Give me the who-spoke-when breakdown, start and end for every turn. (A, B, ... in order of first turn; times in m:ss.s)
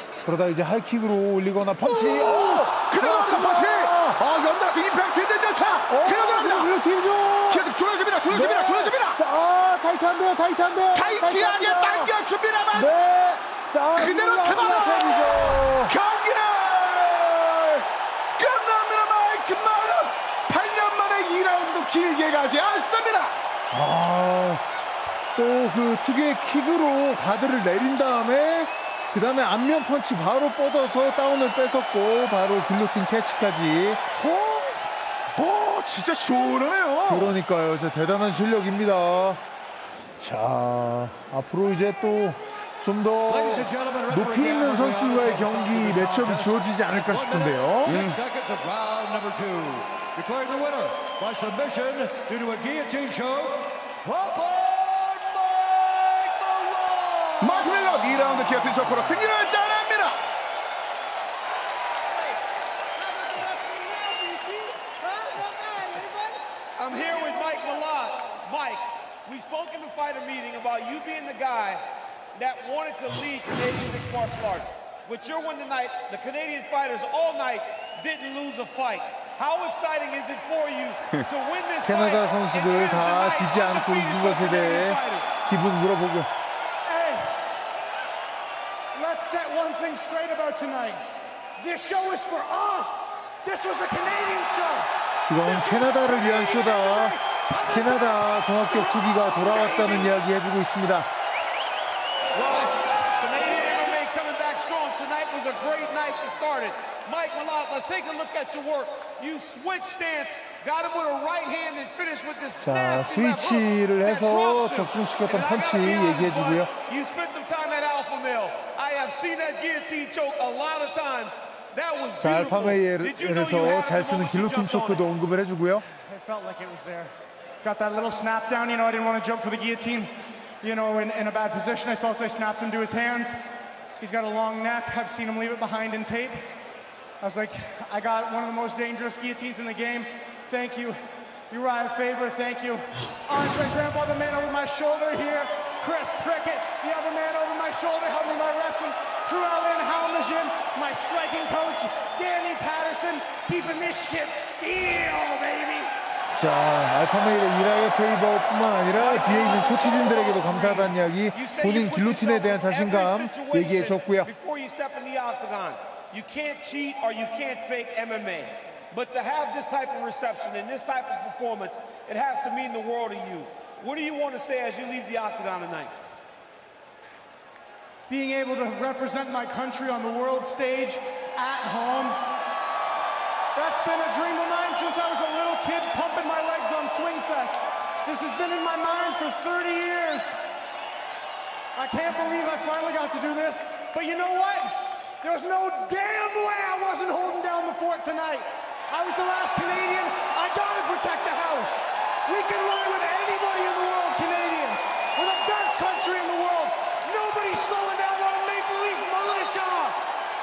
0:00.2-0:04.2 A
0:01.8-0:06.8 B
0:05.9-0:07.7 A
0:07.5-0:09.2 B
0:08.3-0:12.1 A
0:10.9-0:12.9 B
0:12.7-0:15.9 A
0:13.9-0:17.8 B
0:18.4-0:23.4 B
0:23.7-0:24.6 A
0:25.4-0:34.0 A
0:34.2-0:34.8 B
0:35.3-0:37.4 B
0:37.1-0:39.4 A
0:40.2-0:48.0 A
0:43.3-0:57.5 C
0:47.8-0:48.2 B
0:57.4-1:00.2 B
0:57.7-0:58.4 A
1:03.2-1:06.3 C
1:03.4-1:03.8 D
1:06.8-1:25.3 D
1:21.8-1:26.3 A
1:26.8-1:27.3 E
1:28.9-1:31.0 E
1:31.6-1:34.9 E
1:35.3-1:41.1 A
1:35.4-1:40.2 E
1:42.3-2:05.0 D
1:52.6-1:56.7 A
2:02.2-2:05.9 A
2:06.0-2:10.1 E
2:10.6-2:13.4 E
2:14.0-2:16.5 E
2:17.2-2:21.0 E
2:21.5-2:35.9 E
2:36.3-2:44.3 A
2:38.9-2:56.0 D
2:58.1-3:02.2 E
3:03.5-3:10.4 E
3:11.8-3:30.0 E